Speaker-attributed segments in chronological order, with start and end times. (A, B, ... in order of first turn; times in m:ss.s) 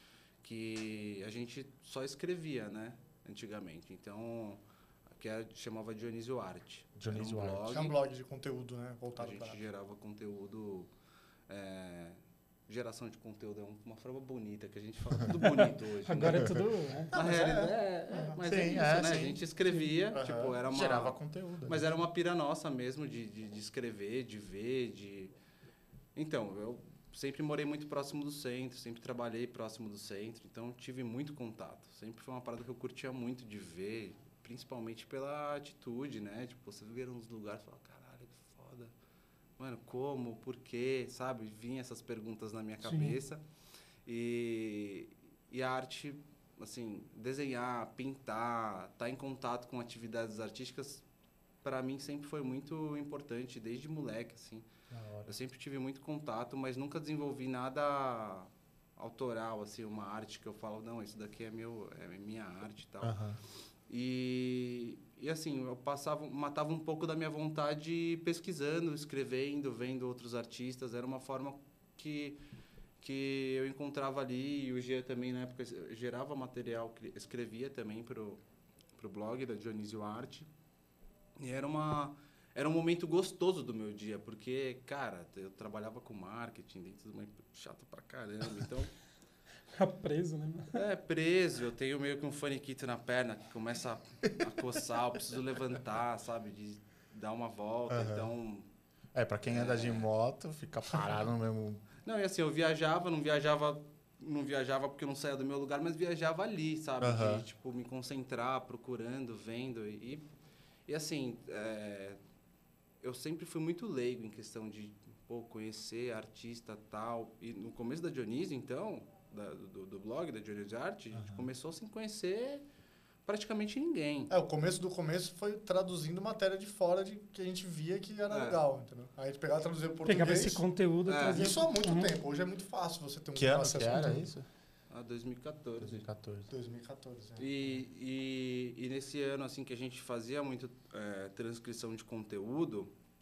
0:00.4-0:04.6 A
0:05.2-0:07.9 A
0:07.0-0:07.7 B
0:07.7-0:09.6 C
0:09.2-0:10.9 A
0:11.5-0:16.6 A
0:16.0-0:17.1 D
0:16.2-0:16.6 B
0:17.1-0:25.3 A
0:17.1-0:18.4 C
0:18.4-0:19.4 B
0:20.1-0:21.9 B
0:26.1-0:38.9 A
0:39.6-0:43.4 A
0:42.9-0:43.2 D
0:44.0-0:51.0 A
0:51.6-0:54.6 A
0:54.9-0:55.4 B
0:55.2-1:03.2 A
1:03.0-1:03.4 B
1:03.9-1:12.4 A
1:13.0-1:18.4 A
1:18.9-1:20.5 A
1:21.4-1:28.9 A
1:29.7-1:30.8 D
1:30.7-1:38.7 A
1:37.9-1:38.3 B
1:39.1-1:41.8 B
1:39.5-1:40.0 A
1:42.0-1:50.2 A
1:47.0-1:47.4 B
1:50.9-1:52.2 A
1:53.0-2:02.6 A
2:01.1-2:01.5 B
2:03.2-2:04.3 A
2:04.3-2:10.6 C
2:08.3-2:08.6 A
2:10.0-2:12.2 D
2:11.0-2:11.5 A
2:11.3-2:14.2 C
2:13.4-2:14.4 B
2:13.9-2:14.2 D
2:14.9-2:16.0 A
2:15.8-2:16.5 B
2:16.5-2:17.5 C
2:17.4-2:22.9 A